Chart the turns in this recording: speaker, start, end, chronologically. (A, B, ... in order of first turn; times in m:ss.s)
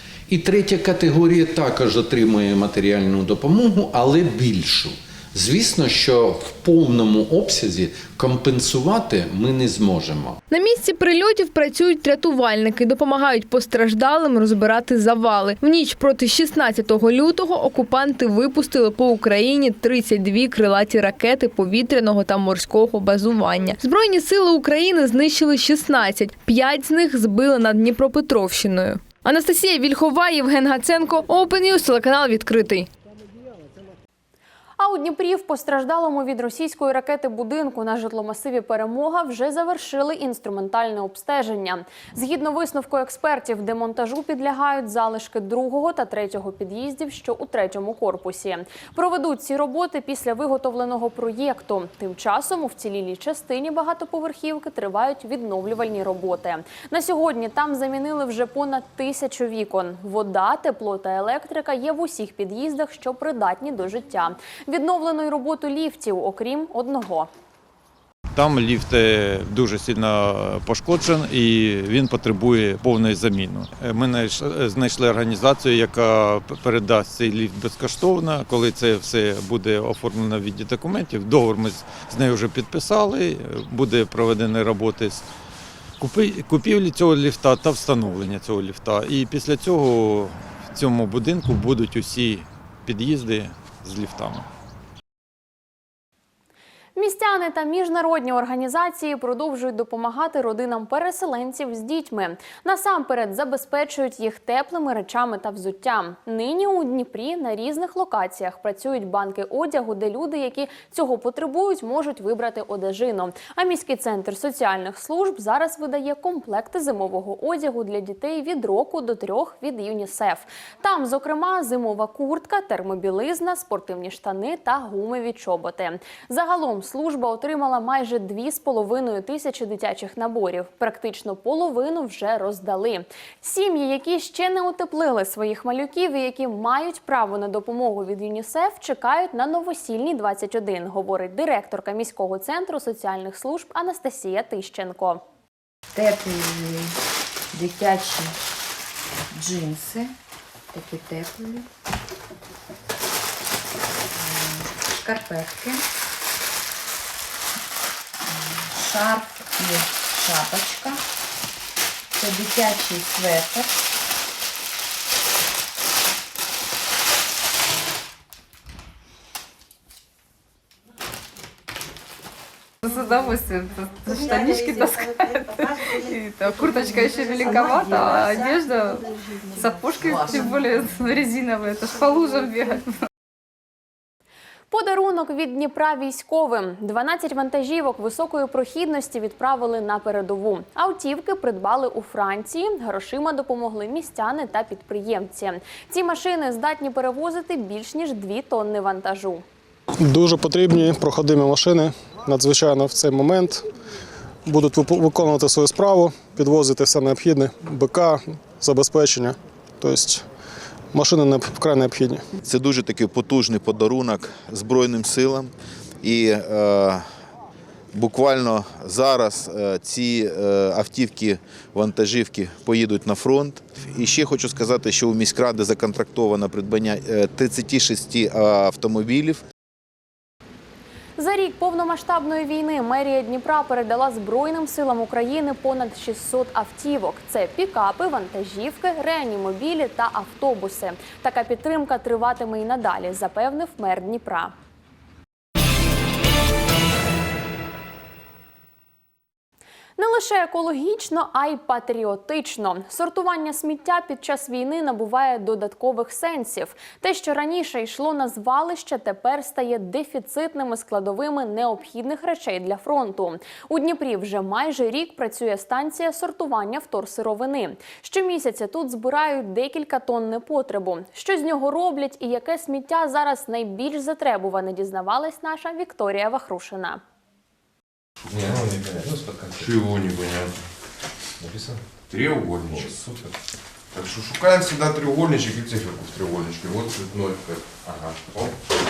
0:00.3-0:10.4 A
0:10.5-0:32.9 B
0:34.8-1:07.3 C
1:08.3-1:25.3 D
1:26.0-1:34.5 D
1:37.0-2:25.2 C
2:25.9-2:26.9 E
2:27.5-2:28.4 E
2:29.3-2:30.1 E
2:30.7-2:31.6 E
2:34.2-2:35.8 E
2:38.3-2:41.0 E
2:42.2-2:43.7 E
2:52.8-3:02.9 F
3:04.7-3:19.4 C
3:20.0-3:23.6 G
3:24.5-3:30.2 G
3:30.9-3:32.2 G
3:32.4-3:37.0 H
3:37.9-3:49.4 H
3:51.2-4:04.5 C
4:10.0-4:37.0 C
4:38.3-4:40.5 I
4:42.1-4:42.9 I
4:43.9-4:48.5 I